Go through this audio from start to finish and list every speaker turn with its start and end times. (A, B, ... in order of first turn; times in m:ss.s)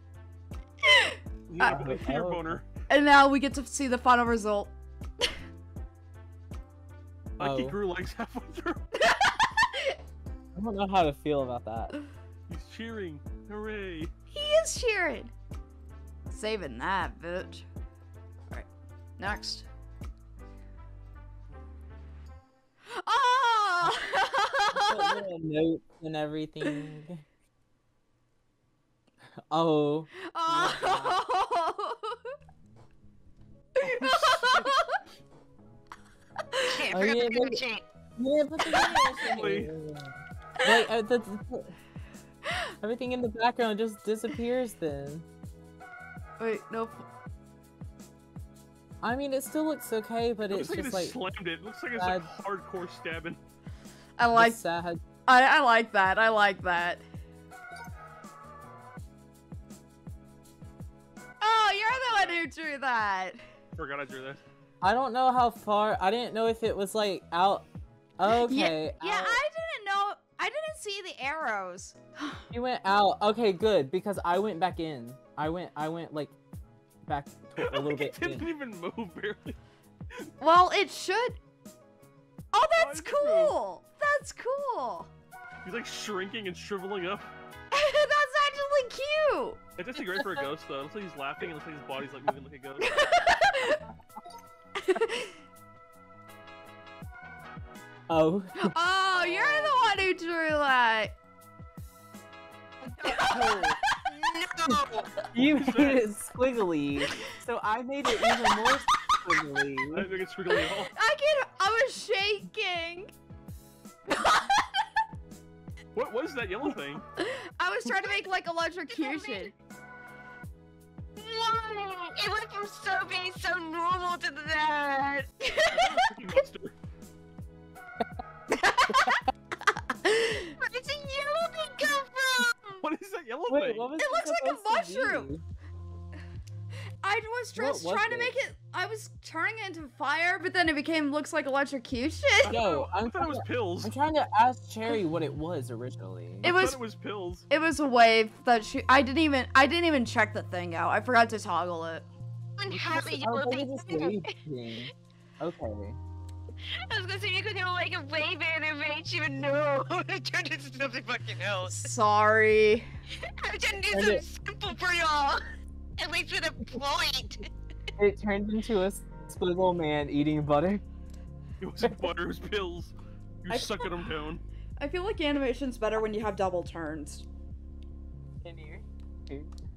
0:00.8-0:01.8 A
0:01.5-0:02.6 B
0:01.6-0:02.6 C
0:02.9-0:04.7 A
0:07.4-0:07.8 C
0:07.4-0:08.8 B
0:09.0-0:10.0 A
0:10.5-0:11.9 C
0:12.5-0:14.1 B
0:14.3-0:15.3 A
0:16.3-0:17.6 A
0:19.2-0:19.7 A
0:22.9-0:25.2 A
0:24.7-0:27.2 C
0:29.5-0:31.2 C
0:30.3-0:32.3 A
0:33.8-0:35.0 A
0:33.8-0:34.4 C
0:36.7-0:37.8 D
0:36.9-0:37.6 C
0:38.2-0:41.8 C
0:39.2-0:39.7 B
0:42.8-0:45.2 C
0:46.4-0:47.0 A
0:49.0-0:51.2 C
0:50.5-0:53.4 B
0:52.0-0:52.3 C
0:54.2-0:54.6 A
0:54.3-0:55.0 C
0:55.2-0:57.0 A
1:01.4-1:03.4 A
1:01.8-1:02.4 B
1:03.7-1:04.4 B
1:04.8-1:07.6 C
1:08.2-1:09.4 C
1:08.4-1:12.4 A
1:12.5-1:16.3 C
1:17.1-1:18.5 C
1:17.6-1:19.6 B
1:20.4-1:21.4 A
1:22.5-1:25.1 A
1:22.8-1:23.5 B
1:25.6-1:27.3 B
1:27.7-1:29.6 A
1:29.8-1:32.9 B
1:32.8-1:33.8 A
1:34.8-1:35.3 A
1:38.1-1:38.7 C
1:38.6-1:41.1 A
1:39.1-1:40.0 B
1:42.8-1:45.1 D
1:43.1-1:43.7 A
1:45.3-1:50.1 C
1:45.4-1:46.0 B
1:49.9-1:50.9 B
1:50.6-1:53.1 A
1:54.1-1:54.6 A
1:55.9-1:57.0 B
1:57.2-1:59.5 A
1:58.9-1:59.5 D
2:01.2-2:05.3 D
2:05.4-2:06.0 A
2:05.7-2:06.7 B
2:08.5-2:09.2 A
2:08.9-2:09.2 C
2:09.9-2:10.5 A
2:10.6-2:12.8 D
2:12.8-2:13.9 B
2:13.5-2:15.4 C
2:14.0-2:15.3 A
2:17.0-2:22.6 A
2:17.5-2:18.3 C
2:22.4-2:26.5 C
2:22.5-2:23.9 B
2:26.4-2:27.5 B
2:26.4-2:26.8 A
2:27.5-2:32.1 A
2:32.6-2:34.3 D
2:32.7-2:36.0 C
2:36.9-2:41.9 D
2:41.7-2:42.9 A
2:43.2-2:45.4 D
2:43.9-2:44.2 C
2:46.0-2:47.4 D
2:48.0-2:50.8 C
2:51.6-2:54.4 B
2:53.5-2:53.8 A
2:54.8-2:57.2 A
2:58.4-2:59.5 C